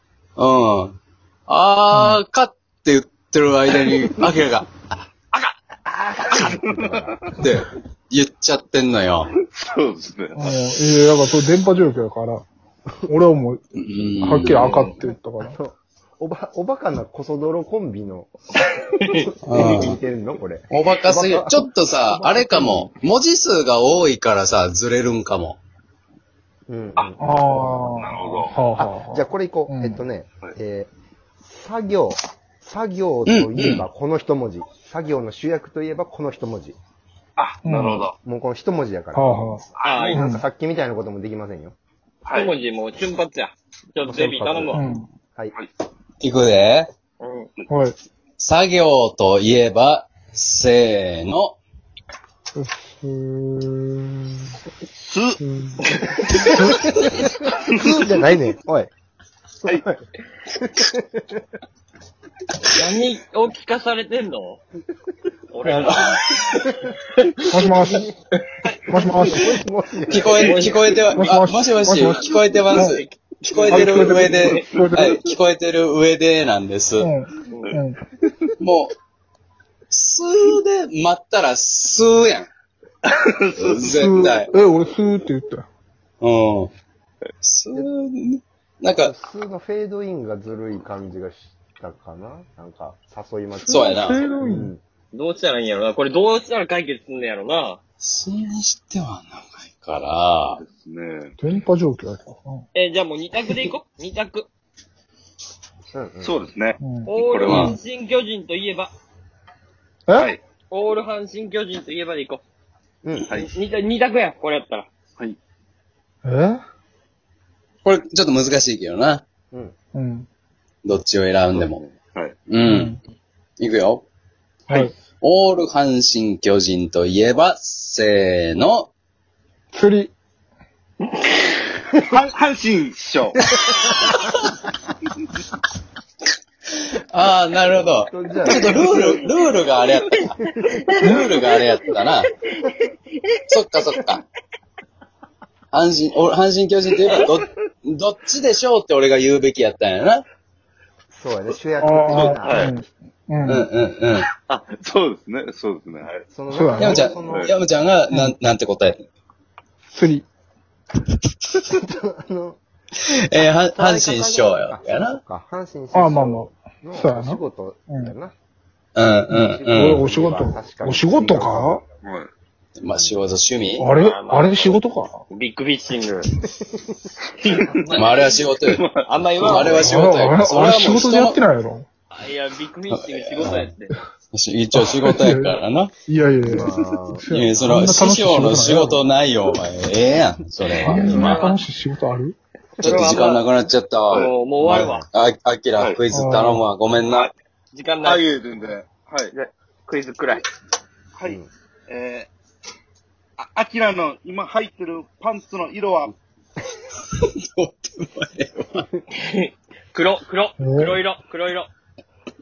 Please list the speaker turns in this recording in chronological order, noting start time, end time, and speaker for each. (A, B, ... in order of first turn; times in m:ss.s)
0:00.4-0:04.7 A
0:01.9-0:02.2 B
0:05.9-0:07.3 C
0:07.4-0:09.3 A
0:09.4-0:10.5 D
0:10.4-0:12.5 B
0:13.1-0:13.6 B
0:13.8-0:14.8 A
0:14.2-0:15.6 B
0:14.4-0:14.7 C
0:15.4-0:18.3 C
0:19.0-0:19.3 E
0:19.1-0:22.9 C
0:19.5-0:20.0 A
0:20.7-0:25.6 A
0:26.7-0:27.8 C
0:27.2-0:30.0 B
0:28.0-0:28.5 D
0:28.8-0:30.9 C
0:31.4-0:36.8 C
0:33.3-0:33.9 A
0:37.4-0:38.1 D
0:37.6-0:38.1 B
0:38.2-0:41.8 C
0:39.2-0:39.6 B
0:39.8-0:40.2 D
0:39.8-0:40.3 E
0:40.1-0:40.4 B
0:42.2-0:42.5 D
0:42.3-0:44.8 E
0:44.0-0:45.6 C
0:44.7-0:45.1 B
0:46.2-0:46.9 A
0:47.2-0:47.5 E
0:47.7-0:48.0 B
0:48.4-0:51.6 A
0:52.6-0:54.5 B
0:55.0-0:55.4 D
0:55.4-0:55.8 B
0:56.6-0:58.9 C
0:59.6-1:00.0 C
1:00.5-1:01.4 C
1:02.7-1:04.6 E
1:05.5-1:06.2 E
1:06.6-1:06.9 C
1:07.5-1:08.1 B
1:07.6-1:08.2 C
1:08.9-1:09.5 B
1:08.9-1:10.8 C
1:10.1-1:17.1 A
1:10.4-1:11.0 E
1:11.2-1:13.0 B
1:12.6-1:14.6 E
1:13.7-1:15.2 B
1:14.3-1:14.9 D
1:17.0-1:18.0 B
1:17.5-1:17.8 E
1:17.6-1:18.4 D
1:18.6-1:18.9 A
1:19.9-1:22.5 A
1:23.0-1:24.5 D
1:23.6-1:24.5 A
1:23.8-1:25.6 B
1:26.2-1:26.7 A
1:27.4-1:29.1 A
1:29.0-1:34.8 C
1:33.7-1:34.7 B
1:33.7-1:34.2 A
1:35.1-1:37.8 E
1:38.0-1:40.6 A
1:40.5-1:41.4 D
1:41.4-1:42.6 B
1:42.7-1:44.5 E
1:45.9-1:46.4 C
1:46.2-1:47.7 D
1:46.8-1:47.8 B
1:47.1-1:48.9 E
1:50.7-1:52.4 E
1:53.0-1:53.3 C
1:53.3-1:53.5 D
1:53.3-1:54.9 E
1:56.2-1:56.6 B
1:57.8-1:59.2 A
1:59.9-2:00.3 B
2:00.8-2:01.8 A
2:01.5-2:02.4 D
2:02.5-2:03.0 A
2:02.6-2:03.0 B
2:03.6-2:04.0 A
2:05.2-2:08.9 A
2:09.7-2:10.1 B
2:12.0-2:13.5 D
2:16.9-2:20.4 A
2:17.9-2:19.1 C
2:20.4-2:21.2 C
2:21.0-2:22.3 A
2:23.5-2:24.2 A
2:25.7-2:30.2 A
2:31.1-2:32.7 C
2:31.8-2:33.7 B
2:32.1-2:32.7 D
2:33.5-2:34.3 A
2:34.5-2:36.2 D
2:36.3-2:37.5 C
2:36.5-2:37.0 B
2:36.8-2:39.0 A
2:37.0-2:37.5 D
2:39.9-2:40.3 B
2:41.7-2:42.6 C
2:43.2-2:45.2 A
2:43.3-2:48.3 C
2:45.9-2:48.1 B
2:49.0-2:50.0 A
2:49.4-2:51.8 B
2:49.4-2:51.8 C
2:52.0-2:52.3 D
2:52.8-2:53.9 A
2:52.9-2:53.3 C
2:53.8-2:55.2 B
2:53.9-2:54.8 E
2:55.3-2:56.3 E
2:57.4-2:58.3 E
2:57.8-2:58.1 D
2:58.0-2:58.8 A
2:58.6-2:59.9 D
2:59.1-3:01.0 E
2:59.4-3:01.4 A
2:59.7-3:01.9 B
3:02.1-3:04.0 E
3:03.4-3:03.7 A
3:04.3-3:05.9 A
3:04.7-3:09.0 B
3:06.4-3:07.2 C
3:07.3-3:11.4 A
3:10.8-3:12.4 B
3:10.9-3:11.6 E
3:11.0-3:11.5 D
3:12.8-3:13.5 E
3:12.8-3:17.3 A
3:14.1-3:15.0 E
3:14.7-3:15.0 C
3:16.1-3:16.6 B
3:17.7-3:18.2 E
3:18.0-3:19.3 D
3:19.3-3:20.4 E
3:21.1-3:22.3 D
3:23.4-3:26.1 D
3:27.1-3:28.9 A
3:29.2-3:31.7 E
3:30.6-3:31.0 B